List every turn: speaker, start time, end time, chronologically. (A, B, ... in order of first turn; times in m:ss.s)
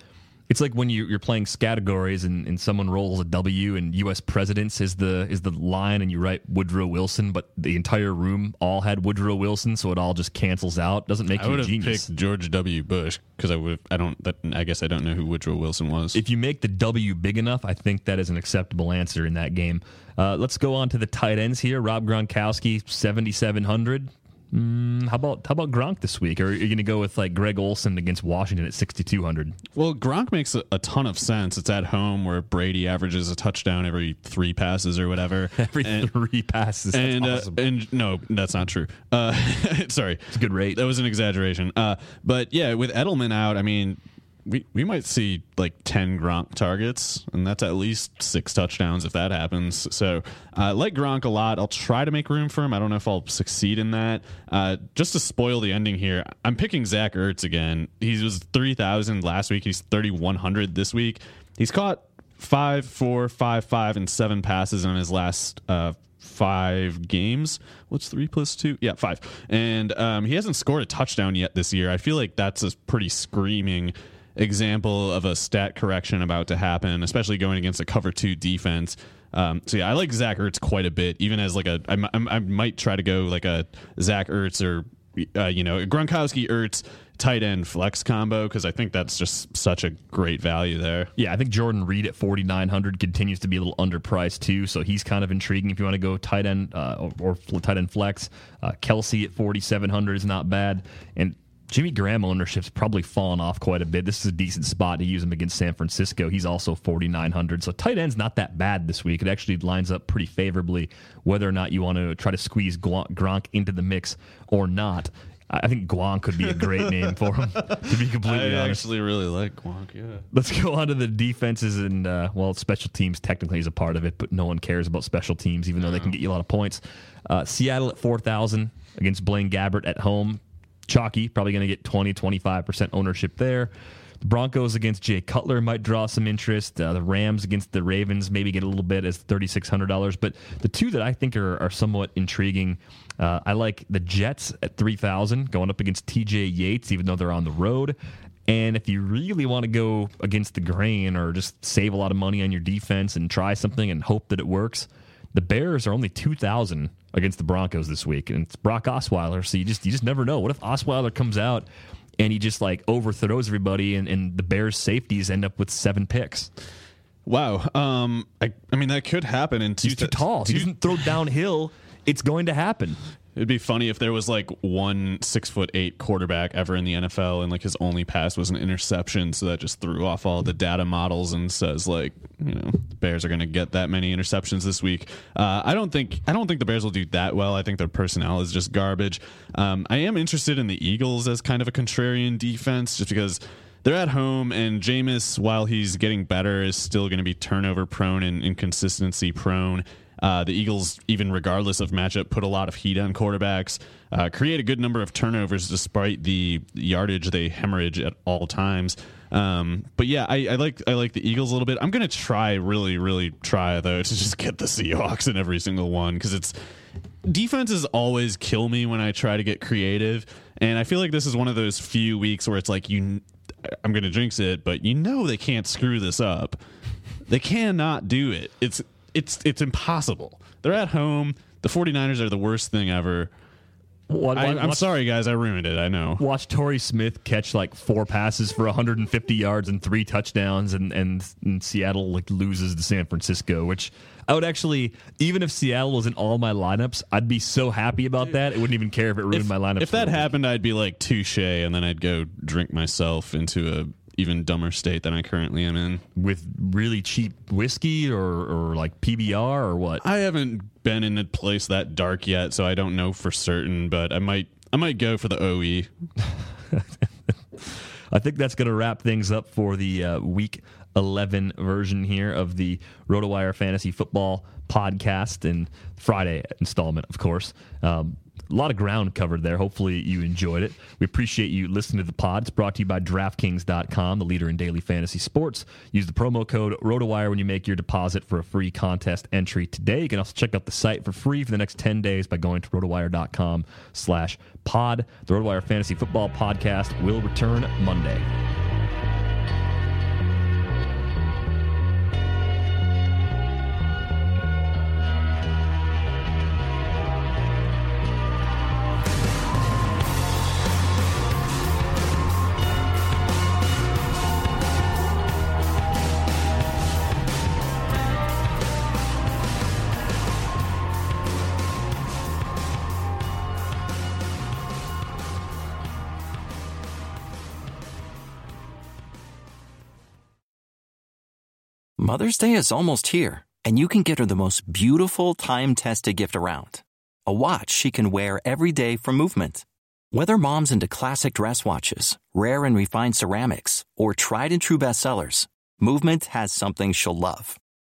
0:00.5-0:12.1 A
0:11.3-0:16.2 B
0:16.1-0:29.5 A
0:29.7-0:36.1 B
0:35.6-0:37.6 A
0:36.9-1:31.1 B
0:40.3-0:40.8 A
1:31.2-1:58.8 A
1:57.7-2:00.2 B
2:00.3-2:27.9 A
2:05.8-2:06.1 B
2:28.5-2:41.7 A
2:42.2-2:46.5 A
2:47.2-2:51.0 B
2:49.8-2:53.0 A
2:53.3-3:36.5 B
3:37.2-3:46.6 B
3:47.3-3:53.3 B
3:54.1-3:54.9 A
3:54.3-3:56.2 B
3:56.2-4:10.3 A
4:09.3-4:16.0 B
4:16.2-4:20.0 A
4:20.0-4:25.9 B
4:27.6-4:58.3 A
5:32.0-5:47.6 C